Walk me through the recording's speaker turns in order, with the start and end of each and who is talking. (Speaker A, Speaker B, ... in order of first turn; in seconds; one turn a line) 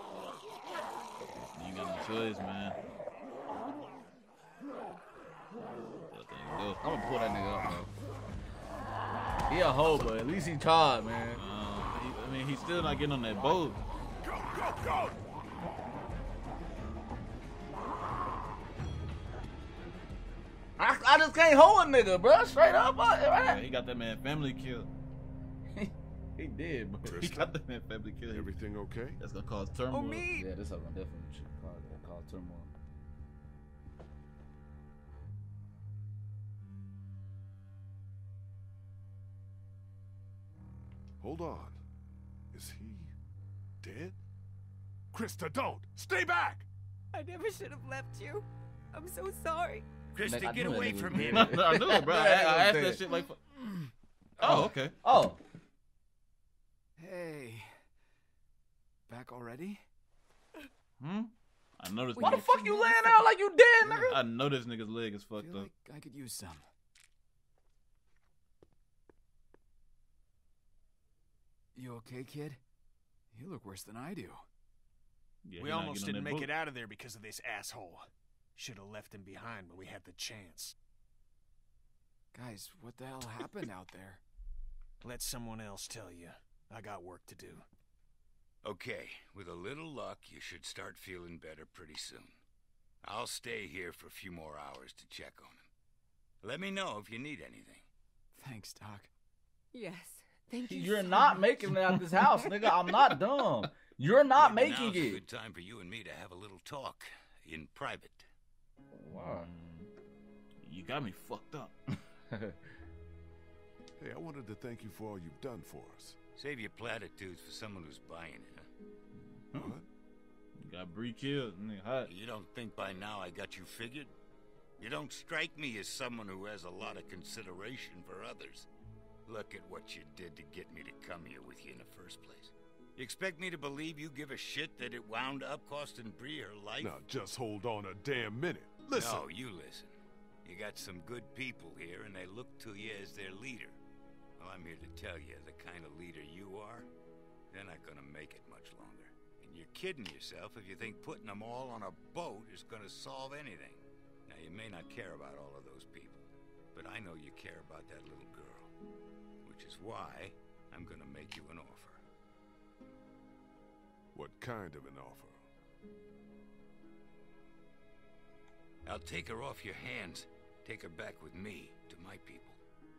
Speaker A: 1.4-2.8
Speaker A: 6.1-6.8
Speaker B: 6.8-7.9
Speaker B: 9.5-11.4
Speaker A: 11.3-13.8
Speaker C: 14.2-15.2
Speaker B: 20.8-23.6
Speaker A: 23.4-24.9
Speaker B: 25.7-27.2
Speaker C: 27.0-27.5
Speaker A: 27.1-28.5
Speaker C: 28.3-29.2
Speaker A: 29.2-30.3
Speaker D: 29.9-30.4
Speaker B: 30.3-32.7
Speaker C: 41.2-41.8
Speaker C: 42.5-43.1
Speaker C: 43.8-44.2
Speaker C: 45.1-46.7
Speaker D: 47.1-49.9
Speaker E: 50.1-51.5
Speaker B: 50.2-53.2
Speaker A: 51.1-53.4
Speaker B: 54.4-55.4
Speaker A: 54.4-54.9
Speaker F: 57.0-57.8
Speaker F: 59.1-59.8
Speaker A: 61.0-62.6
Speaker D: 62.2-63.2
Speaker B: 62.2-64.2
Speaker A: 63.9-65.7
Speaker F: 65.3-66.7
Speaker F: 71.7-72.6
Speaker F: 73.3-74.4
Speaker A: 75.4-76.5
Speaker G: 75.6-80.8
Speaker F: 82.3-84.2
Speaker G: 85.0-87.7
Speaker E: 88.6-92.4
Speaker E: 93.0-95.7
Speaker E: 96.4-97.9
Speaker F: 98.3-99.1
Speaker D: 99.7-101.5
Speaker B: 100.7-105.2
Speaker E: 104.4-108.3
Speaker A: 104.5-105.0
Speaker B: 108.9-109.5
Speaker A: 109.1-109.9
Speaker A: 110.6-111.7
Speaker B: 112.3-112.6
Speaker C: 114.0-116.2
Speaker E: 116.3-118.7
Speaker C: 119.5-119.9
Speaker A: 120.6-122.1
Speaker E: 122.0-124.1
Speaker E: 124.8-128.7
Speaker E: 129.2-137.0
Speaker C: 136.8-139.3
Speaker E: 138.9-143.8
Speaker E: 144.4-146.9
Speaker E: 147.5-158.7
Speaker E: 159.4-162.0
Speaker C: 164.1-165.4
Speaker E: 168.8-172.6